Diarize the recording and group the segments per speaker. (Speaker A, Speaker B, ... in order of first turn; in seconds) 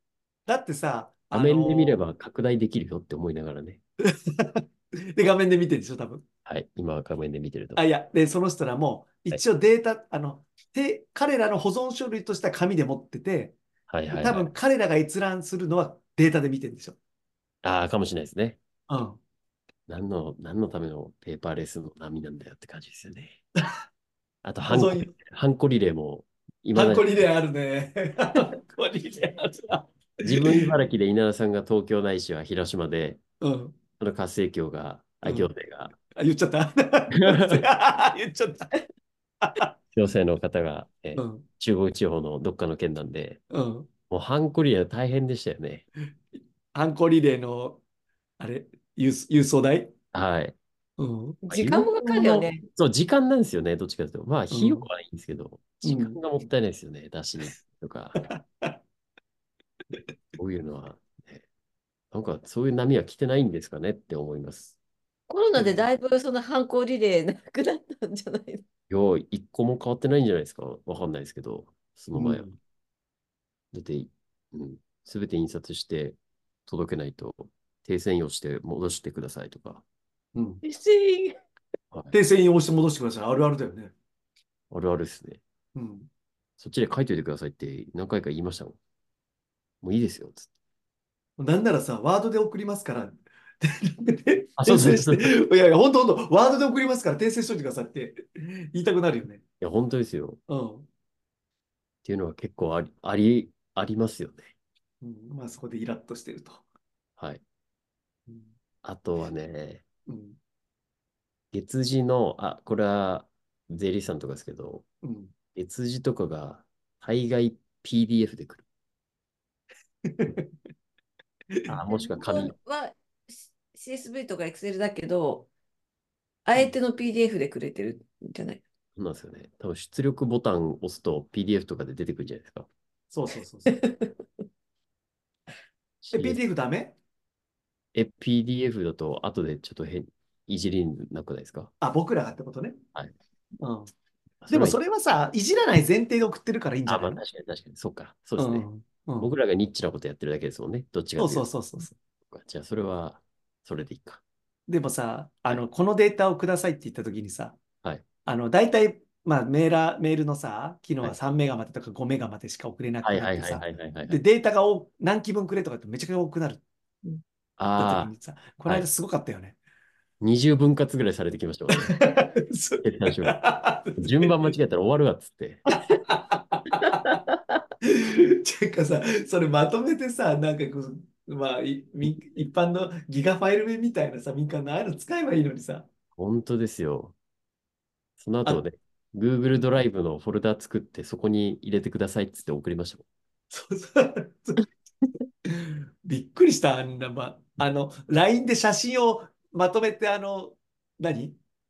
Speaker A: 0.5-2.0, 4.0-4.6, 5.1-6.2, 7.8-13.6, 14.2-17.0, 18.9-19.2, 24.6-25.1, 26.7-30.7, 33.4-33.7, 35.2-35.5, 36.1-38.7, 39.4-39.7, 41.1-41.5, 43.5-43.9, 46.4-47.8, 48.4-49.9, 51.0-51.4, 54.5-54.9, 55.8-56.2, 58.2-58.7, 65.5-65.8, 72.1-72.6, 80.3-80.6, 82.1-83.9, 85.7-86.1, 91.4-99.4, 100.5-100.9, 105.0-106.6, 110.1-110.4, 115.0-115.3, 120.0-120.5, 133.1-133.8, 136.1-136.9, 141.8-142.8, 143.6-143.9, 144.5-147.2, 148.4-149.3, 151.2-151.9, 154.7-157.6, 158.2-166.6, 167.8-169.6, 171.7-174.5, 175.7-177.2, 177.8-185.9, 193.5-194.7, 195.5-201.4
Speaker B: 1.3-3.8, 6.5-7.8, 13.9-14.5, 17.6-18.6, 19.9-23.4, 24.4-27.1, 30.2-33.2, 34.0-36.0, 37.2-37.6, 39.9-43.4, 44.1-45.9, 50.1-50.5, 51.5-58.2, 60.4-61.4, 62.1-64.7, 68.9-72.5, 73.7-79.8, 84.7-85.4, 86.6-88.8, 89.8-90.5, 94.6-95.3, 99.6-100.4, 102.0-104.5, 108.8-109.8, 111.5-114.8, 115.5-118.6, 121.7-122.5, 128.9-132.7, 136.0-136.4, 137.9-141.7, 144.4-144.8, 146.8-148.7, 149.2-151.5, 152.3-154.2, 163.0-164.2, 167.6-168.1, 170.2-172.0, 172.8-173.4, 174.0-175.6, 186.1-187.1, 188.2-193.0
Speaker C: 51.5-52.6, 65.3-68.6, 80.6-81.4, 121.9-125.5, 126.5-128.6, 133.7-134.1